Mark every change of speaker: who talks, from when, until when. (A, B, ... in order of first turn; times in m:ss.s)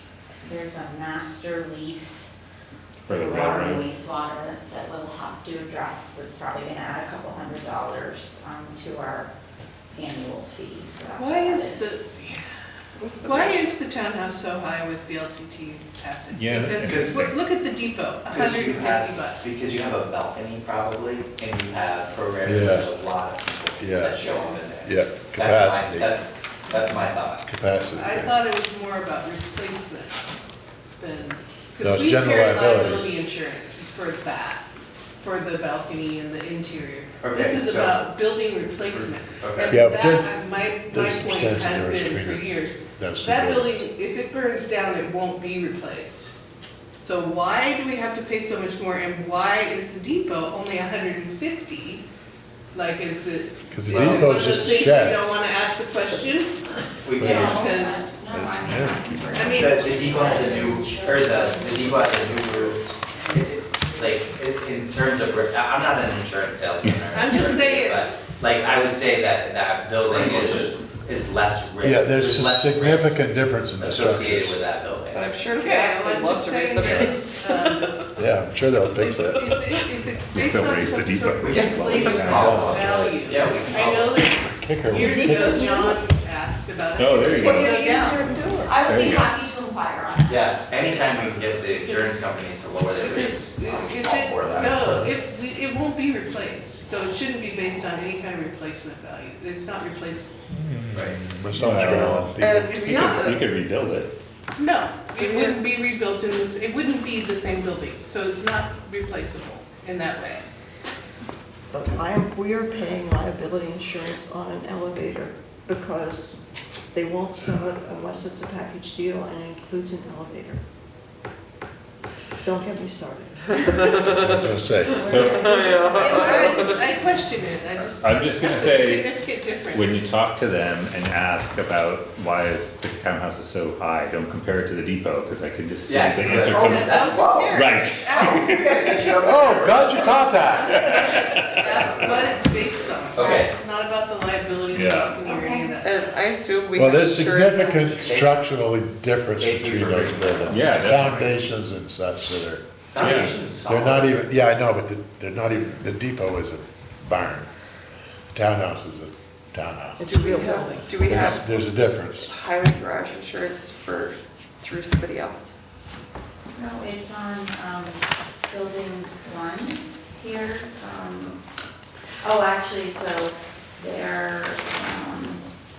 0:00.4-0:02.3 A
0:03.0-0:03.8 B
0:03.1-0:09.3 A
0:10.0-0:11.9 A
0:11.2-0:12.4 C
0:13.0-0:13.6 D
0:13.2-0:19.6 C
0:16.3-0:17.4 B
0:16.8-0:17.2 E
0:18.3-0:27.4 E
0:22.4-0:22.9 F
0:23.8-0:24.2 F
0:24.8-0:26.1 F
0:27.4-0:28.4 F
0:27.9-0:30.2 C
0:31.0-0:34.6 C
0:31.8-0:33.1 F
0:35.2-0:46.3 C
0:37.2-0:38.1 E
0:39.0-0:39.8 E
0:39.7-0:43.8 F
0:47.0-0:52.0 C
0:52.7-0:58.2 C
0:53.7-0:55.3 F
0:57.0-0:57.8 E
0:57.2-0:57.6 F
0:57.2-1:02.2 A
0:58.3-1:00.7 F
0:59.3-0:59.8 C
0:59.4-1:02.8 E
1:03.3-1:15.2 E
1:06.8-1:07.3 B
1:07.1-1:08.1 C
1:10.1-1:10.6 C
1:11.8-1:14.6 F
1:15.1-1:18.1 D
1:15.5-1:18.1 C
1:18.2-1:19.5 F
1:18.9-1:28.6 C
1:19.3-1:19.8 D
1:20.3-1:23.0 B
1:21.4-1:24.3 E
1:21.5-1:22.7 D
1:22.2-1:23.2 F
1:24.5-1:25.8 F
1:25.0-1:26.0 G
1:27.0-1:27.8 B
1:27.2-1:28.8 G
1:28.6-1:32.2 A
1:28.8-1:29.3 B
1:30.3-1:35.0 E
1:33.0-1:40.3 C
1:40.5-1:43.0 F
1:41.0-1:42.3 B
1:41.8-1:42.2 E
1:42.4-1:43.4 D
1:42.6-1:43.4 C
1:42.8-1:44.1 B
1:44.6-1:50.4 C
1:45.2-1:45.6 D
1:51.7-1:56.4 G
1:56.9-2:00.6 G
2:02.4-2:06.9 G
2:04.2-2:05.0 F
2:05.0-2:05.5 B
2:05.3-2:06.8 D
2:05.9-2:10.0 C
2:08.0-2:09.1 B
2:09.7-2:17.0 B
2:15.8-2:17.6 E
2:16.3-2:26.3 C
2:17.5-2:18.8 B
2:18.2-2:20.1 E
2:19.1-2:21.1 F
2:20.6-2:21.6 B
2:21.6-2:22.4 E
2:21.8-2:22.2 F
2:23.1-2:23.6 E
2:24.7-2:25.2 B
2:25.3-2:25.7 A
2:25.8-2:28.0 D
2:26.8-2:37.5 F
2:27.5-2:28.4 E
2:27.7-2:28.2 C
2:29.4-2:30.8 E
2:30.0-2:31.4 B
2:32.9-2:34.2 E
2:33.0-2:33.4 B
2:38.3-2:40.1 F
2:40.0-2:41.5 G
2:40.0-2:45.5 D
2:41.0-2:42.3 F
2:46.5-2:51.4 A
2:52.2-2:55.4 A